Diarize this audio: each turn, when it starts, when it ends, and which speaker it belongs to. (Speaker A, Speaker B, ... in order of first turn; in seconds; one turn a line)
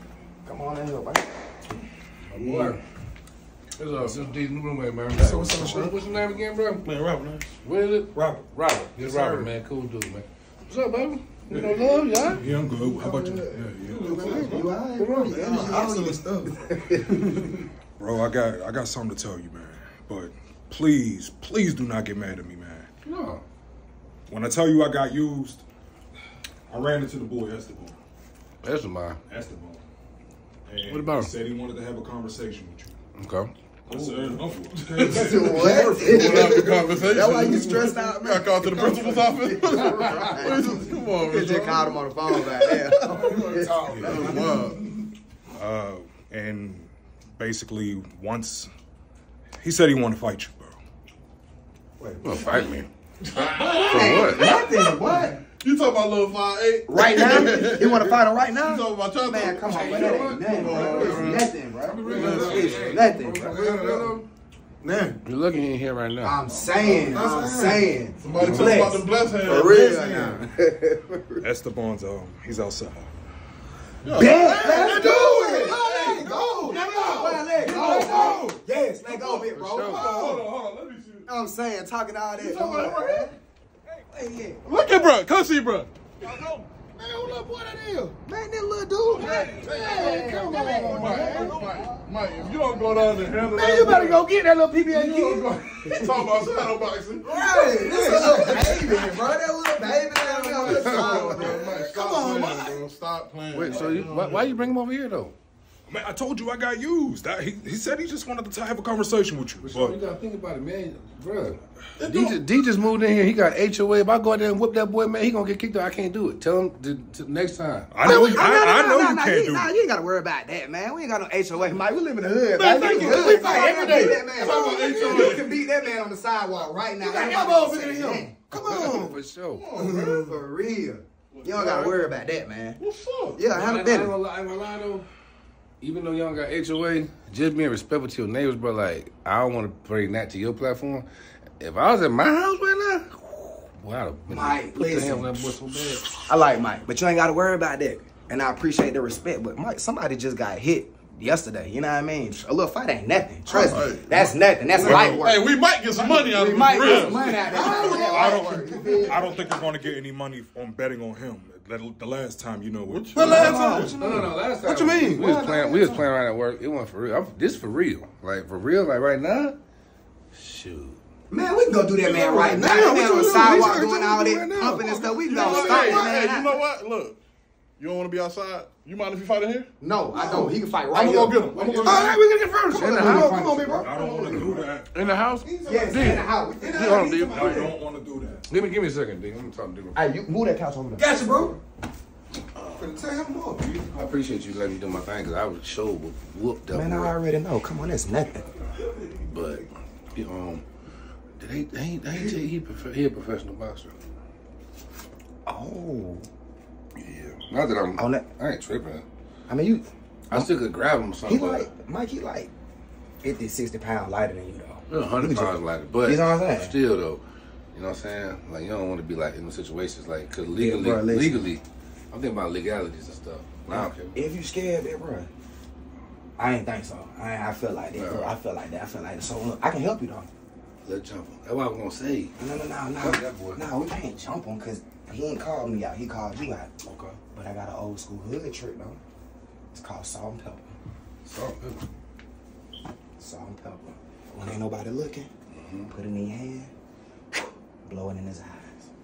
Speaker A: 0.5-1.3
Speaker B: 2.3-2.8
Speaker C: 2.3-2.8
Speaker B: 3.8-6.8
Speaker D: 5.2-6.0
Speaker C: 5.4-5.9
Speaker C: 6.8-7.6
Speaker B: 7.6-12.4
Speaker D: 8.1-8.5
Speaker D: 12.3-14.6
Speaker A: 12.9-13.5
Speaker B: 13.7-15.6
Speaker C: 13.8-14.7
Speaker A: 14.1-17.5
Speaker C: 15.3-16.3
Speaker D: 18.0-22.9
Speaker B: 23.1-23.4
Speaker D: 24.3-25.6
Speaker D: 26.7-28.0
Speaker B: 28.6-29.2
Speaker D: 29.3-29.8
Speaker D: 30.7-33.0
Speaker B: 30.9-31.3
Speaker B: 33.2-33.5
Speaker D: 33.9-36.7
Speaker C: 34.3-44.9
Speaker A: 35.0-44.7
Speaker D: 43.9-44.6
Speaker D: 45.5-48.7
Speaker D: 49.6-50.8
Speaker A: 52.0-52.7
Speaker B: 52.2-52.9
Speaker C: 53.3-54.7
Speaker A: 53.4-55.4
Speaker B: 53.9-54.5
Speaker C: 55.6-61.5
Speaker A: 56.9-64.1
Speaker B: 59.6-64.3
Speaker C: 62.0-63.0
Speaker A: 64.9-65.2
Speaker B: 65.2-66.4
Speaker A: 66.2-71.4
Speaker C: 66.5-70.4
Speaker B: 68.3-68.8
Speaker D: 71.4-73.1
Speaker C: 74.0-81.3
Speaker A: 74.1-80.4
Speaker D: 76.7-78.6
Speaker B: 79.6-80.3
Speaker A: 81.3-83.4
Speaker C: 82.3-83.3
Speaker A: 84.1-84.7
Speaker C: 84.6-86.7
Speaker A: 86.9-92.0
Speaker C: 89.1-94.3
Speaker B: 89.2-91.6
Speaker A: 92.6-96.7
Speaker C: 94.9-99.2
Speaker A: 97.2-102.8
Speaker C: 100.3-104.6
Speaker B: 100.4-101.8
Speaker B: 103.5-105.3
Speaker D: 105.9-110.0
Speaker B: 109.6-118.0
Speaker C: 112.0-112.4
Speaker D: 117.9-119.7
Speaker A: 118.0-129.2
Speaker C: 122.5-125.5
Speaker D: 123.0-123.4
Speaker B: 123.2-123.6
Speaker C: 127.0-130.3
Speaker B: 128.5-129.7
Speaker A: 129.8-132.8
Speaker C: 131.3-132.0
Speaker C: 132.8-133.4
Speaker A: 133.3-134.2
Speaker B: 133.5-135.1
Speaker B: 135.8-141.1
Speaker B: 141.6-146.2
Speaker A: 144.3-145.4
Speaker A: 146.2-159.5
Speaker C: 153.5-154.1
Speaker D: 154.1-155.3
Speaker C: 154.8-159.2
Speaker D: 157.8-163.9
Speaker C: 162.9-164.0
Speaker A: 163.2-164.3
Speaker B: 164.0-169.6
Speaker C: 164.7-165.2
Speaker A: 165.1-166.1
Speaker B: 170.3-171.0
Speaker A: 171.3-176.6
Speaker B: 172.0-176.1
Speaker C: 172.6-173.8
Speaker C: 174.7-177.2
Speaker C: 177.8-182.2
Speaker A: 179.8-182.2
Speaker B: 181.8-187.7
Speaker A: 182.7-184.1
Speaker C: 182.9-184.6
Speaker D: 183.8-185.1
Speaker C: 185.3-186.2
Speaker A: 185.7-187.7
Speaker D: 187.0-188.5
Speaker B: 188.5-190.0
Speaker A: 189.9-191.6
Speaker B: 192.6-192.9
Speaker A: 192.8-194.0
Speaker B: 193.9-197.2
Speaker A: 196.7-198.4
Speaker B: 199.1-200.6
Speaker B: 201.4-203.9
Speaker A: 205.5-206.3
Speaker B: 207.0-209.1
Speaker A: 208.0-208.3
Speaker A: 209.5-210.5
Speaker B: 210.3-211.7
Speaker A: 211.2-212.5
Speaker A: 213.2-216.8
Speaker B: 214.9-217.2
Speaker B: 217.7-224.2
Speaker A: 220.6-221.5
Speaker A: 223.7-225.3
Speaker A: 226.4-230.3
Speaker B: 227.9-228.3
Speaker B: 230.8-232.3
Speaker A: 232.4-236.7
Speaker B: 233.0-233.6
Speaker B: 236.8-237.2
Speaker A: 237.3-239.0
Speaker A: 239.7-240.7
Speaker B: 241.2-241.8
Speaker A: 243.2-245.3
Speaker B: 245.5-245.9
Speaker A: 245.9-246.7
Speaker A: 247.3-248.8